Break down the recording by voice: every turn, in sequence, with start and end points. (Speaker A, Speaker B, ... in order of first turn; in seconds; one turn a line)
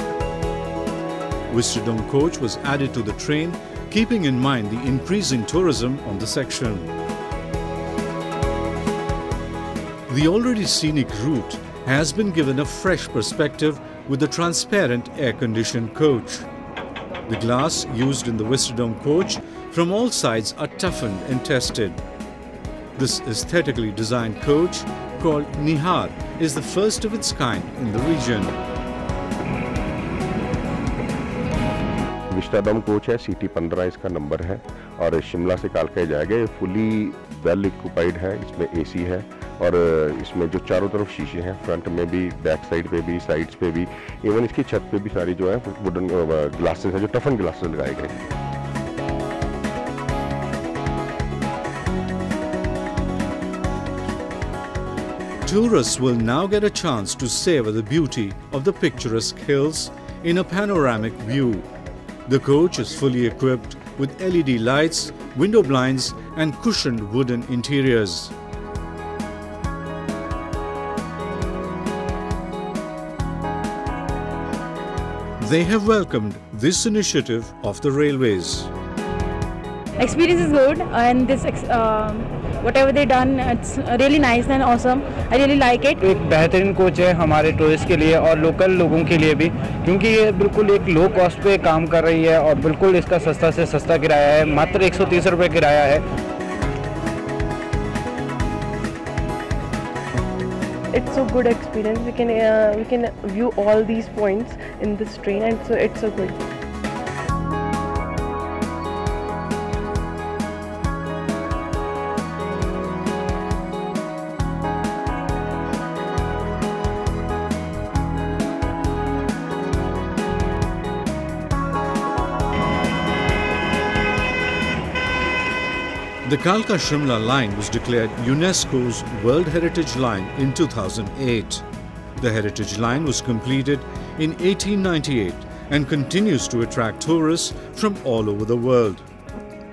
Speaker A: 1.5-6.9
Speaker A: 10.1-16.5
Speaker A: 17.3-22.0
Speaker A: 22.9-28.6
Speaker B: 32.3-48.2
Speaker A: 55.4-61.7
Speaker A: 62.2-68.3
Speaker A: 75.4-78.7
Speaker C: 80.0-86.0
Speaker D: 86.0-96.0
Speaker E: 100.9-106.4
Speaker A: 126.2-131.6
Speaker A: 132.2-139.0